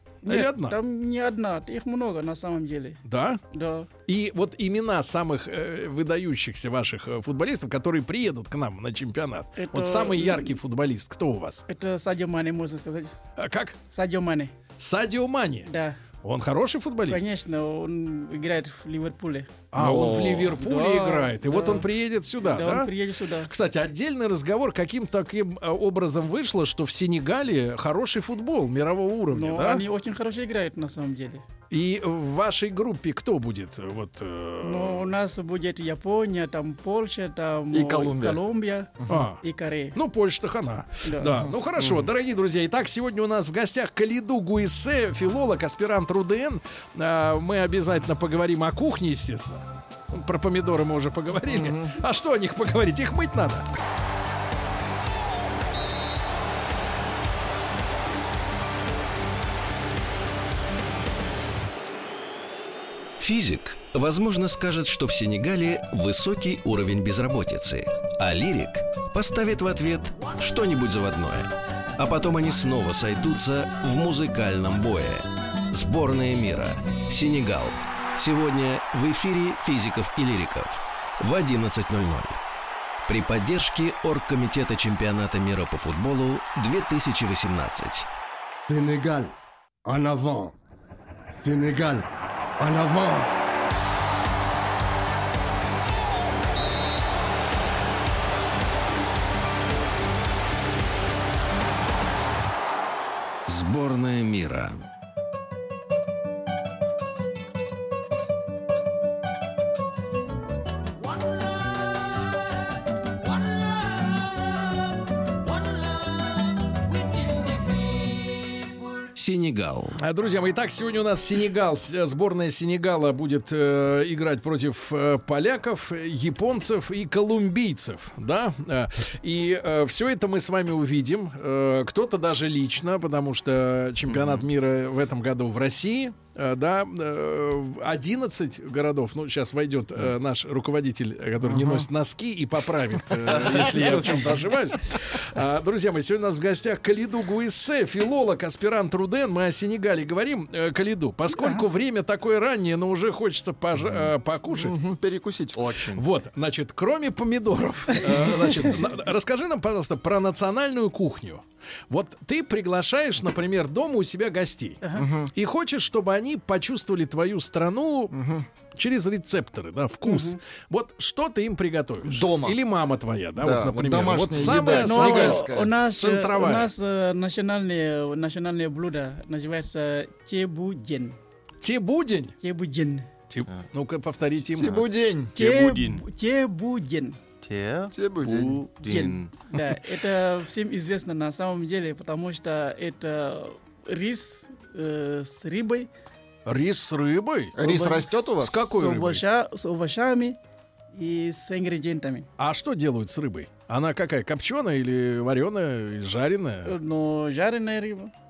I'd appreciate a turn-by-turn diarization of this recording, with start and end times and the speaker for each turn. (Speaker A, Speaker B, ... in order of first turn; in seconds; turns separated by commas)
Speaker A: 0.2-3.0, Speaker B: 0.2-0.8, Speaker B: 3.0-3.4, Speaker A: 3.5-3.9, Speaker B: 4.1-11.6, Speaker A: 9.6-10.6, Speaker A: 11.7-13.2, Speaker B: 13.4-13.8, Speaker A: 13.9-14.5, Speaker B: 14.8-15.7, Speaker A: 15.7-16.0, Speaker B: 16.2-17.2, Speaker A: 17.1-19.6, Speaker B: 19.7-22.9, Speaker C: 19.8-20.6, Speaker A: 20.5-21.9, Speaker A: 22.4-23.5, Speaker B: 23.5-29.8, Speaker A: 29.3-31.4, Speaker B: 31.7-35.1, Speaker A: 34.6-40.0, Speaker C: 37.7-38.4, Speaker C: 39.0-39.3, Speaker B: 39.1-39.4, Speaker B: 39.9-53.7, Speaker A: 41.0-41.4, Speaker C: 51.5-51.9, Speaker D: 63.2-82.4, Speaker D: 83.1-88.1, Speaker E: 88.5-89.3, Speaker E: 89.8-90.5, Speaker E: 91.3-92.1, Speaker E: 92.6-93.3, Speaker D: 103.5-104.8, Speaker D: 118.0-120.0, Speaker B: 119.9-154.7, Speaker F: 134.1-134.4, Speaker C: 141.4-141.9, Speaker F: 143.2-144.4, Speaker A: 151.3-151.6, Speaker C: 154.5-155.6, Speaker F: 155.5-156.0, Speaker B: 155.9-164.8, Speaker A: 157.9-158.7, Speaker A: 164.8-165.1, Speaker C: 164.9-165.3, Speaker B: 165.3-168.2, Speaker C: 168.1-168.5, Speaker B: 168.7-176.7, Speaker A: 170.0-170.4, Speaker C: 172.0-172.6, Speaker C: 173.3-175.7, Speaker A: 174.6-181.2, Speaker B: 181.6-182.3, Speaker A: 182.4-183.1, Speaker B: 183.3-184.8, Speaker C: 184.5-185.3, Speaker F: 184.6-184.8, Speaker F: 185.3-186.0, Speaker A: 185.3-187.2, Speaker F: 187.4-189.3, Speaker C: 187.9-188.6, Speaker A: 188.8-195.9, Speaker B: 196.4-197.6, Speaker C: 197.5-198.7, Speaker A: 197.6-200.4, Speaker B: 198.4-199.2, Speaker A: 200.9-202.3, Speaker B: 202.4-206.8, Speaker A: 206.6-208.1